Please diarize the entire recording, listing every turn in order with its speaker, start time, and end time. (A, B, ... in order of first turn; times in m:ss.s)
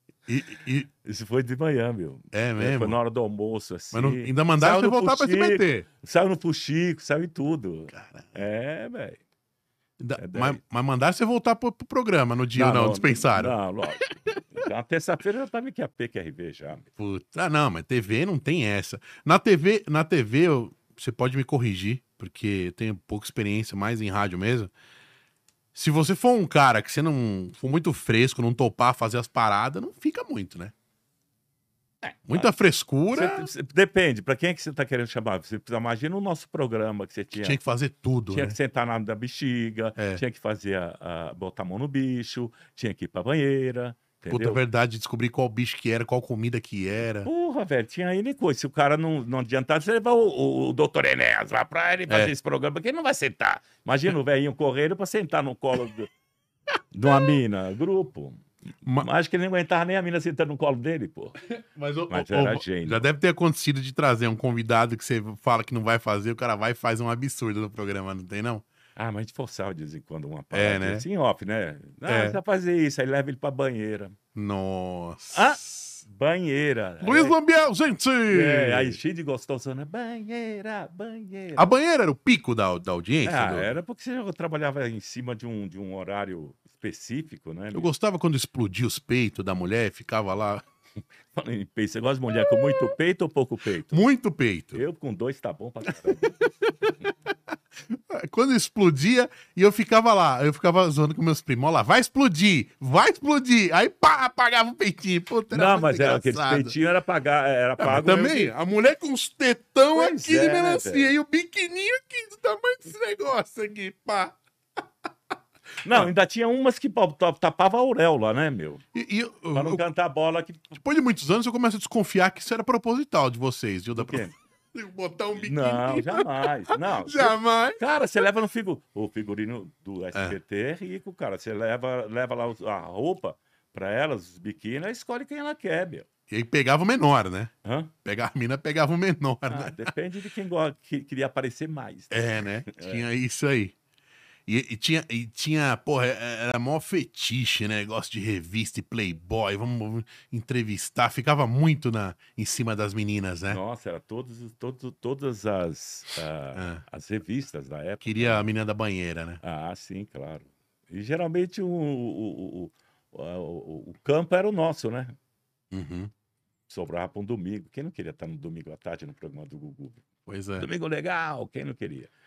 0:00.3-0:00.9 A
0:01.0-0:09.2 B
0:02.3-0:03.0 A
0:03.9-0:05.8 A
0:07.9-0:08.3 A
0:10.0-0:14.1 A
0:10.2-0:10.6 B
0:12.5-0:16.9 B
0:17.0-0:24.7 A
0:25.7-0:30.7 A
0:32.0-0:32.5 B
0:32.3-0:33.5 A
0:33.1-0:37.6 B
0:37.4-0:38.6 A
0:38.3-0:44.6 B
0:40.0-0:40.2 A
0:44.3-0:47.3 A
0:47.2-0:56.1 B
0:56.9-0:58.4 B
0:59.0-1:01.4 B
1:01.5-1:08.6 A
1:02.1-1:03.1 B
1:09.0-1:14.2 B
1:10.5-1:11.0 A
1:12.1-1:12.4 A
1:14.3-1:15.8 A
1:15.3-1:17.4 B
1:17.0-1:19.0 A
1:18.3-1:21.7 B
1:21.6-1:23.7 A
1:23.2-1:27.9 B
1:27.7-1:30.6 A
1:31.3-1:34.0 B
1:32.4-1:32.9 A
1:33.9-1:34.8 A
1:34.7-1:36.5 B
1:36.2-1:36.9 A
1:37.8-1:46.7 A
1:45.5-1:48.5 B
1:47.8-1:54.4 A
1:49.9-1:51.1 B
1:55.8-1:58.8 B
1:58.9-1:59.8 A
1:59.5-2:00.7 B
2:00.8-2:07.8 A
2:03.9-2:04.3 B
2:05.4-2:16.1 B
2:16.3-2:17.5 A
2:17.6-2:17.9 B
2:18.0-2:19.9 A
2:19.5-2:23.0 B
2:22.1-2:23.7 A
2:24.5-2:33.6 A
2:33.5-2:38.5 B
2:36.5-2:36.8 A
2:38.0-2:39.4 A
2:39.4-2:45.1 B
2:45.7-2:46.1 A
2:46.7-2:50.0 B
2:50.3-2:50.7 A
2:50.6-2:52.1 B